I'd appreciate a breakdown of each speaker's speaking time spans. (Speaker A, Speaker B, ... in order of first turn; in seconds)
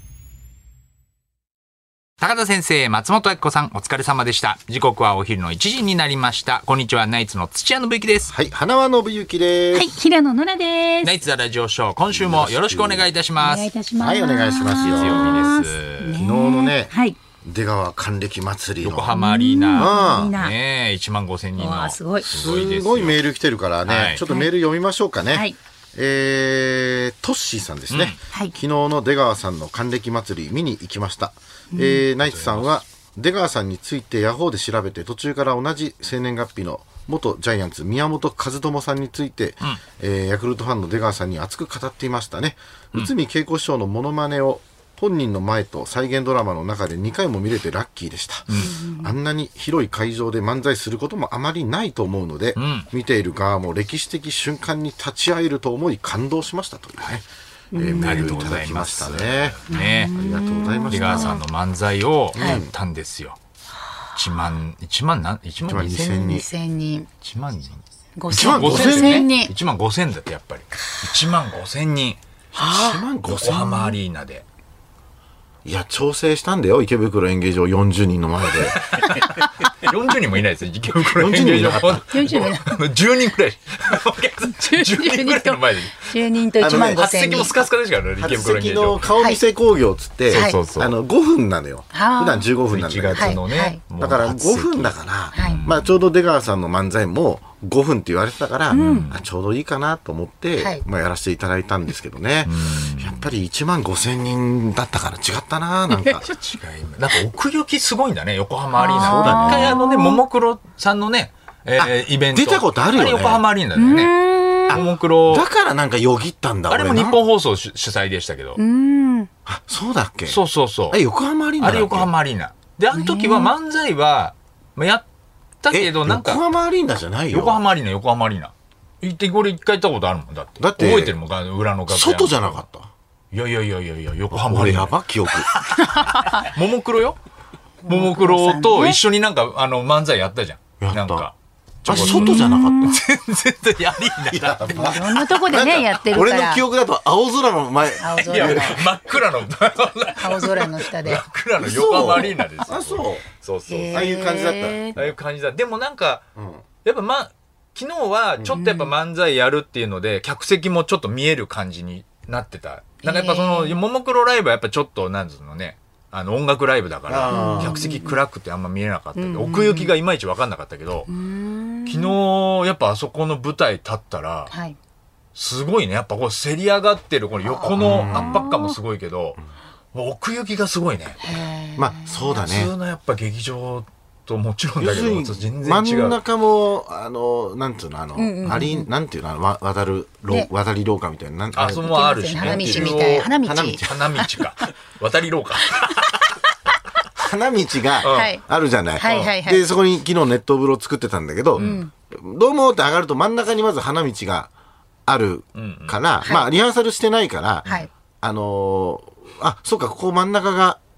Speaker A: 2.2-8.3, 11.0-13.7, 14.8-16.2, 18.8-23.2, 23.8-24.2, 27.9-28.2, 32.2-32.7, 52.6-52.9, 57.9-60.1, 60.9-63.4, 64.2-66.3, 67.2-72.2, 73.3-74.4, 78.8-89.1, 90.3-90.9, 92.7-95.9, 98.8-99.2, 102.5-103.2, 106.3-114.1, 114.7-115.5, 116.7-118.6, 120.3-121.0, 121.6-125.0, 125.6-126.4, 127.3-132.6, 133.3-137.2, 137.9-141.3, 141.8-145.2, 148.2-154.1, 155.0-156.2, 156.8-171.1, 171.9-174.5, 175.3-179.4, 179.9-181.2, 182.3-186.2, 191.5-196.2, 198.0-198.3, 199.1-199.3, 205.6-206.0
Speaker B: 8.3-9.9, 12.1-13.1, 14.0-15.5, 16.2-16.9, 17.4-19.2, 19.7-20.4, 22.2-59.6, 60.1-61.4, 62.3-62.7, 65.6-66.5, 68.3-69.3, 72.5-73.9, 75.7-78.8, 81.1-82.0, 86.6-87.2, 88.2-93.4, 94.0-106.3, 109.0-109.8, 111.8-113.5, 114.7-117.2, 119.5-122.1, 125.7-127.6, 130.6-131.2, 131.9-132.9, 134.3-135.5, 140.8-141.3, 141.8-143.0, 144.3-148.9, 151.6-153.2, 153.9-155.1, 156.4-156.6, 167.1-167.8, 177.7-178.5, 181.8-182.7, 184.8-194.1, 197.2-204.5, 205.1-210.8
Speaker C: 9.7-11.2, 13.4-17.2, 19.1-20.5, 21.6-22.3, 25.3-25.6, 31.7-32.0, 48.6-49.1, 57.7-58.3, 59.7-61.4, 62.4-62.6, 66.2-67.1, 68.2-69.5, 72.5-73.0, 82.1-82.7, 84.6-87.5, 90.3-90.6, 91.9-92.5, 93.2-93.8, 95.3-95.6, 98.7-99.1, 108.8-110.2, 113.8-114.8, 118.6-119.3, 122.9-123.5, 135.8-136.5, 137.8-139.0, 141.9-143.0, 144.7-146.6, 148.0-148.8, 150.2-151.2, 153.7-155.0, 158.5-158.9, 163.0-163.8, 167.3-168.2, 169.2-169.9, 171.1-172.2, 174.5-174.8, 177.4-178.8, 181.2-182.3, 188.2-188.9, 191.8-194.3, 198.0-198.4, 199.0-199.6, 201.6-201.9, 206.2-206.5